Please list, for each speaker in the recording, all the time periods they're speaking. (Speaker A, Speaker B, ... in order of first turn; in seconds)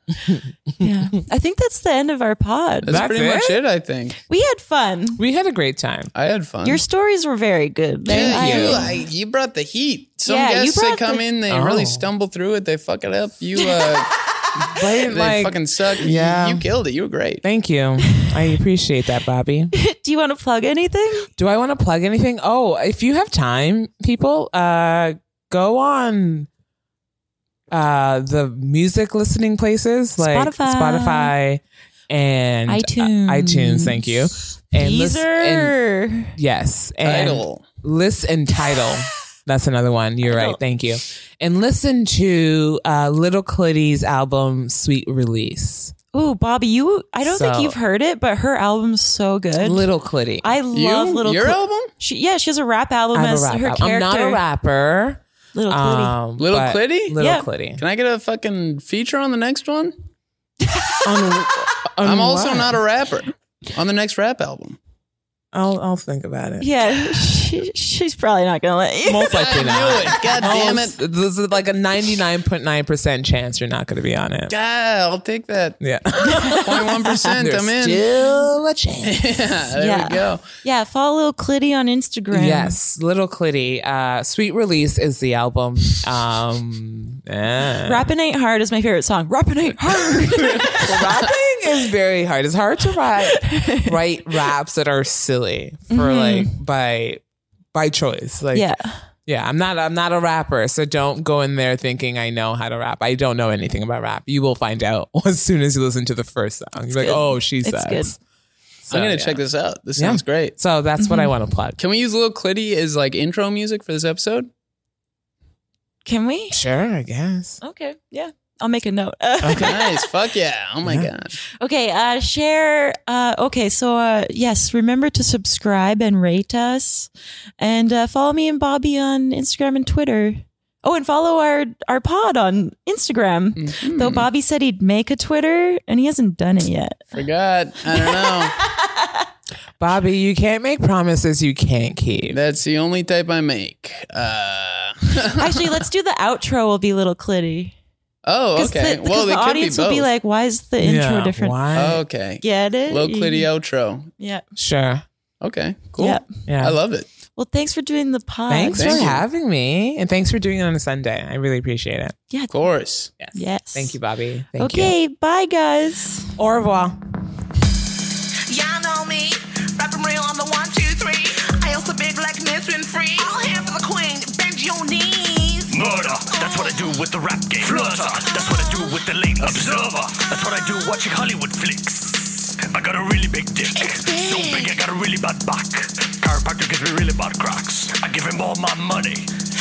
Speaker A: 0.3-0.9, 2.9-3.6, 5.2-6.1, 8.1-8.9, 11.5-12.1, 14.7-16.6, 17.4-19.7, 21.4-26.5, 27.7-35.8, 36.4-45.9, 47.2-47.8, 49.6-50.5, 53.1-57.8, 61.0-62.8, 65.5-66.7, 69.1-74.5, 75.8-76.8, 77.3-79.4, 82.3-88.0, 90.6-97.2, 97.7-98.7, 99.3-108.2, 108.8-109.4, 110.0-111.8, 116.5-117.6, 119.4-119.7, 120.8-121.1, 139.8-142.4, 150.8-152.0, 154.6-155.1, 156.5-156.8, 158.5-162.2, 163.2-164.9, 166.4-167.0
Speaker B: 0.8-3.1, 4.2-5.2, 6.6-9.0, 10.3-11.2, 19.7-21.3, 30.2-31.3, 32.7-36.3, 40.2-40.6, 46.1-49.9, 50.4-54.4, 55.5-56.2, 57.2-57.5, 60.6-61.2, 66.6-70.1, 76.3-77.3, 79.8-82.8, 87.8-91.2, 93.2-93.9, 95.9-96.6, 98.5-99.0, 106.9-108.1, 111.0-111.3, 116.0-116.7, 117.6-120.1, 121.6-137.2, 137.9-139.3, 145.4-147.8, 148.6-151.6, 152.4-153.5, 154.2-154.4, 156.0-156.2, 157.3-159.0, 163.3-164.0, 164.6-166.4
Speaker C: 2.8-4.2, 6.1-6.8, 8.1-17.4, 37.0-37.6, 50.7-51.9, 56.4-57.2, 57.8-59.9, 62.0-64.8, 69.3-71.0, 74.5-75.8, 76.4-78.1, 79.0-80.4, 108.9-110.5, 111.8-114.5, 119.6-121.3, 133.6-134.3, 137.1-138.6, 142.3-145.6, 148.2-150.1, 151.7-154.1, 155.4-157.1, 158.7-159.2, 162.5-163.1
Speaker D: 168.5-177.0, 177.6-180.7, 183.7-184.8
Speaker E: 175.7-189.3